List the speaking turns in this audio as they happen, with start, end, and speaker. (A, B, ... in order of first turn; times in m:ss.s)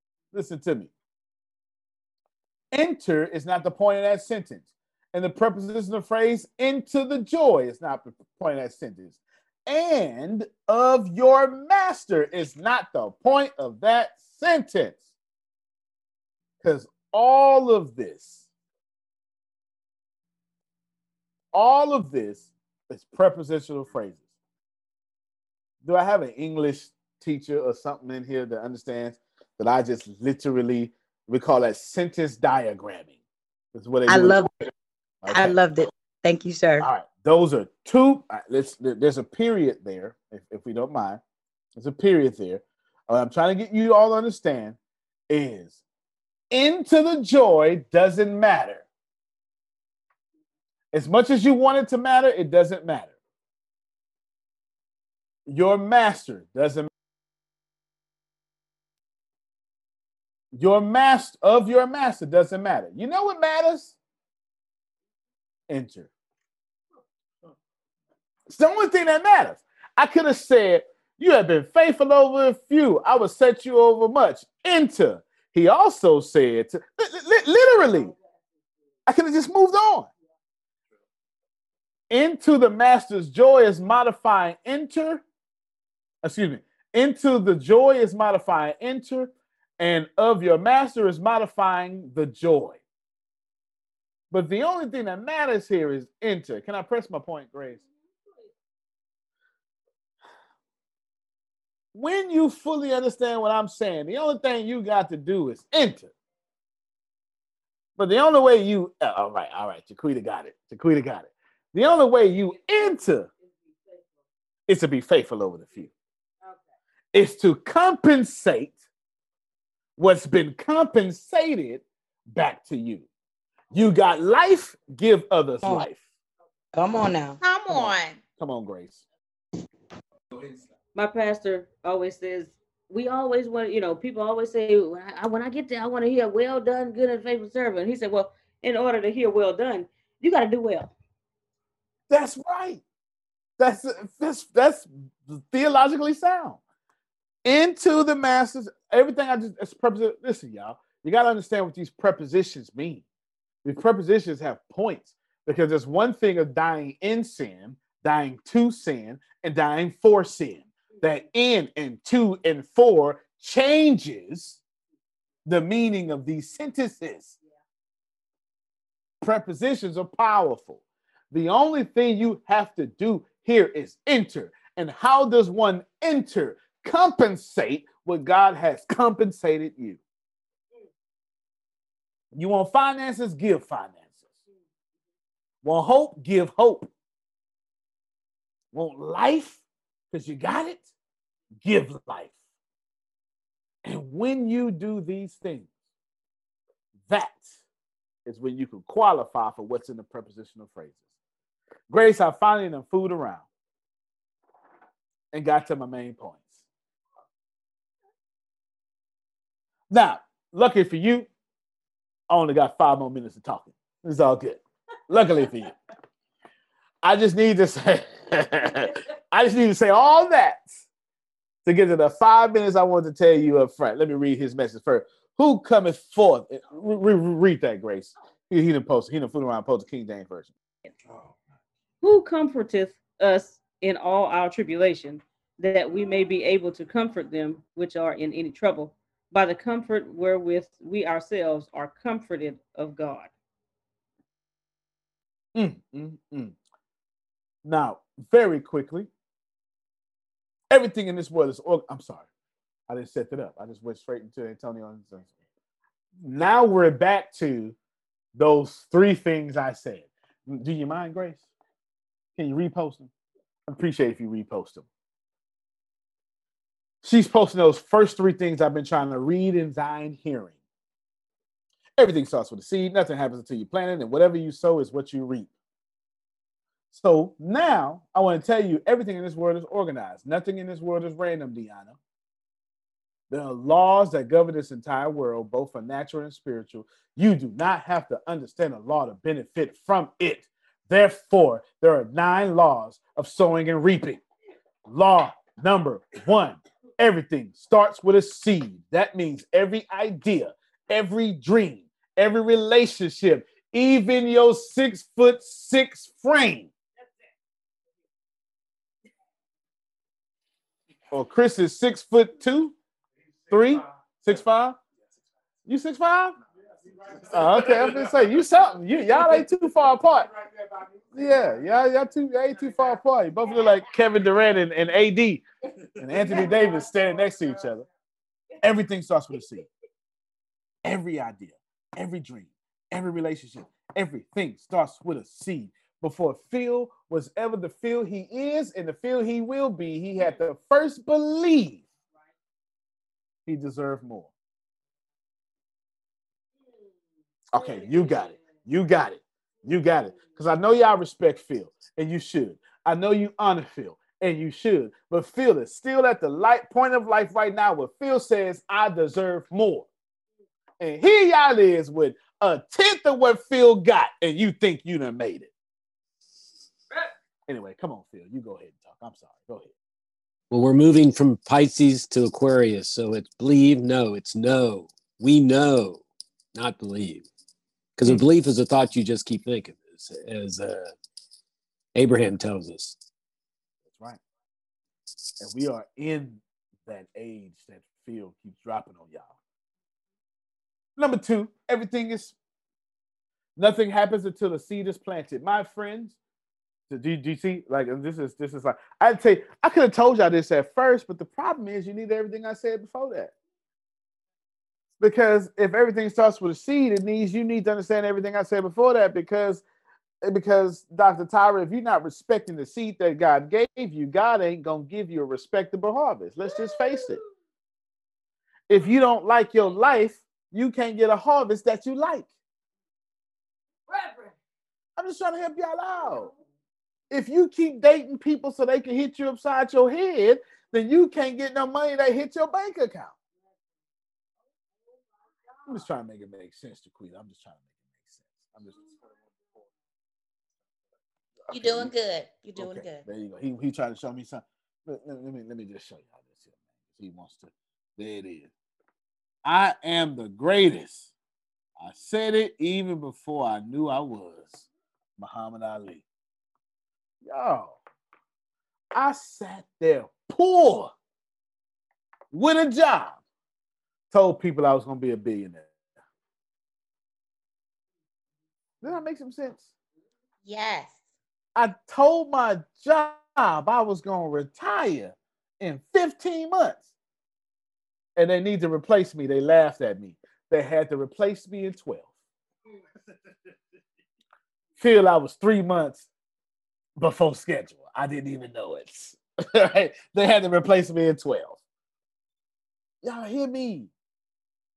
0:00.3-0:00.9 A
0:02.7-0:15.1 A
0:16.6-0:18.5 A
0:21.5-0:24.2 A
0:25.8-0:33.2 A
0:33.7-0:34.4 A
0:34.1-0:34.6 B
0:35.2-0:35.6 A
0:35.3-0:36.9 B
0:36.8-0:41.2 A
0:41.8-0:44.8 A
0:45.3-0:45.8 A
0:46.5-0:48.8 A
0:50.9-0:53.1 A
0:55.5-0:56.9 A
1:00.5-1:04.0 A
1:05.7-1:06.1 A
1:08.5-1:18.1 A
1:19.1-1:20.1 A
1:22.1-1:25.2 A
1:26.2-1:32.8 A
1:34.3-1:37.8 A
1:41.9-1:46.1 A
1:48.0-1:53.3 A
1:54.7-1:55.9 A
1:57.1-1:58.8 A
2:00.0-2:03.0 A
2:03.7-2:06.0 A
2:06.7-2:07.4 B
2:07.4-2:08.2 C
2:07.7-2:09.0 A
2:10.3-2:10.6 A
2:10.9-2:20.9 D
2:22.1-2:22.8 A
2:23.6-2:26.6 A
2:27.4-2:33.0 A
2:33.6-2:44.6 A
2:45.4-2:47.4 A
2:49.2-3:00.0 A
3:02.3-3:04.2 A
3:05.6-3:06.9 A
3:08.7-3:10.9 A
3:11.6-3:12.3 A
3:13.8-3:15.7 A
3:17.1-3:17.6 A
3:18.3-3:21.0 A
3:21.9-3:23.5 A
3:25.3-3:26.6 A
3:29.9-3:31.3 A
3:32.3-3:35.7 A
3:37.0-3:40.7 A
3:41.6-3:50.5 A
3:52.0-4:03.3 D
4:05.6-4:06.6 A
4:07.6-4:09.1 A
4:10.7-4:12.3 A
4:12.9-4:15.3 A
4:16.2-4:17.8 A
4:18.4-4:21.4 A
4:22.4-4:23.1 A
4:23.7-4:24.8 A
4:27.0-4:30.6 A
4:32.0-4:35.5 A
4:36.9-4:42.0 A
4:43.3-4:54.2 A
4:54.8-5:06.7 A
5:11.1-5:12.7 A
5:13.5-5:14.8 A
5:15.6-5:16.4 A
5:17.2-5:20.3 A
5:21.1-5:25.4 A
5:26.0-5:27.9 A
5:28.6-5:29.7 A
5:30.8-5:41.8 A
5:43.4-5:44.3 A
5:47.5-5:59.9 A
6:00.8-6:05.5 A
6:07.5-6:09.7 A
6:10.5-6:16.0 E
6:16.6-6:17.3 E
6:18.0-6:20.9 E
6:21.9-6:23.0 E
6:23.9-6:24.2 A
6:25.4-6:29.4 A
6:31.0-6:32.4 A
6:33.6-6:36.2 A
6:36.9-6:43.3 A
6:45.0-6:49.6 A
6:50.2-6:57.2 A
6:58.7-7:02.3 A
7:05.0-7:06.3 A
7:07.1-7:13.1 A
7:15.6-7:18.9 A
7:21.5-7:21.9 A
7:21.5-7:23.0 C
7:22.6-7:28.5 A
7:29.4-7:31.1 A
7:31.8-7:36.0 A
7:37.2-7:37.8 A
7:38.9-7:40.9 A
7:42.3-7:43.2 A
7:44.1-7:45.7 A
7:48.8-7:49.7 A
7:50.4-7:50.9 C
7:51.6-7:56.9 A
7:58.2-8:02.1 A
8:04.8-8:06.1 A
8:07.0-8:11.6 A
8:13.0-8:13.9 A